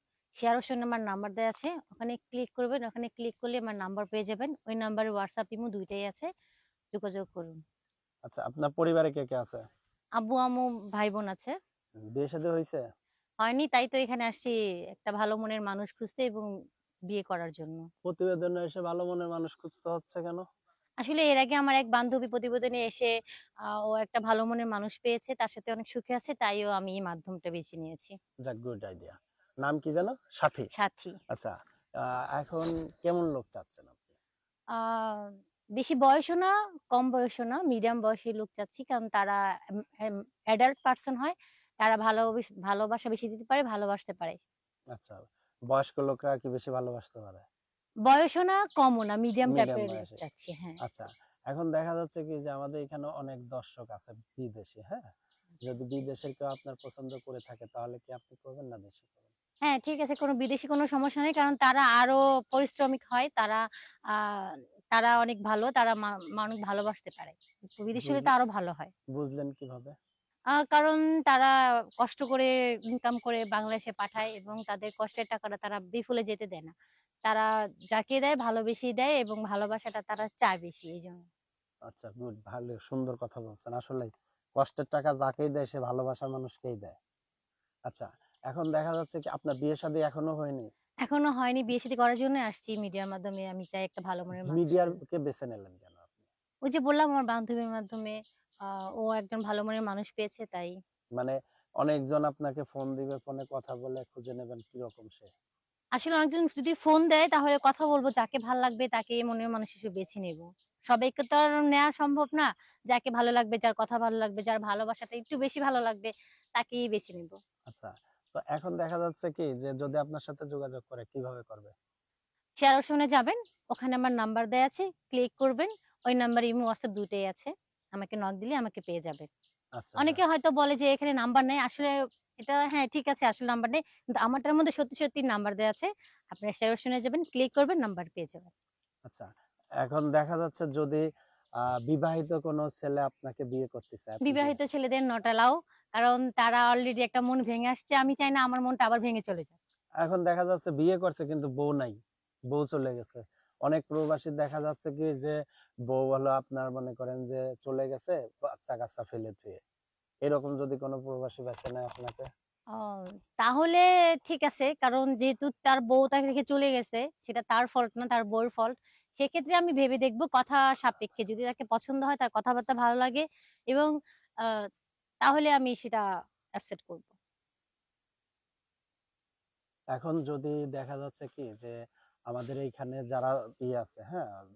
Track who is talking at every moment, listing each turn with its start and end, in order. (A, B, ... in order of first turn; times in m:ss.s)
0:00.4-0:06.3 A
0:06.9-0:07.6 A
0:08.2-0:09.6 B
0:10.2-0:11.5 A
0:12.1-0:12.8 B
0:13.4-0:16.5 A
0:17.1-0:17.9 A
0:18.0-0:20.4 B
0:21.0-0:28.2 A
0:28.4-0:30.7 B
0:30.7-0:31.2 A
0:31.3-0:34.0 B
0:34.7-0:44.4 A
0:44.9-0:47.5 B
0:48.0-0:50.8 A
0:49.5-0:50.2 B
0:50.8-0:55.1 B
0:55.6-0:59.2 B
0:59.6-1:08.9 A
1:08.0-1:08.3 B
1:09.1-1:09.9 B
1:10.6-1:16.7 A
1:17.2-1:21.3 A
1:21.9-1:27.0 B
1:27.9-1:30.7 B
1:31.0-1:35.0 A
1:34.4-1:36.1 B
1:36.6-1:40.7 A
1:41.2-1:45.3 B
1:46.0-1:57.4 A
1:57.6-2:01.7 B
2:02.6-2:09.3 A
2:09.8-2:10.2 B
2:10.0-2:18.5 A
2:19.8-2:21.0 B
2:21.6-2:24.5 B
2:24.2-2:29.6 A
2:30.0-2:32.0 B
2:32.5-2:35.4 B
2:35.9-2:39.6 B
2:40.2-2:42.3 B
2:42.7-2:53.9 A
2:55.2-2:56.0 A
2:56.6-2:57.1 A
2:59.9-3:01.7 B
3:02.3-3:04.3 B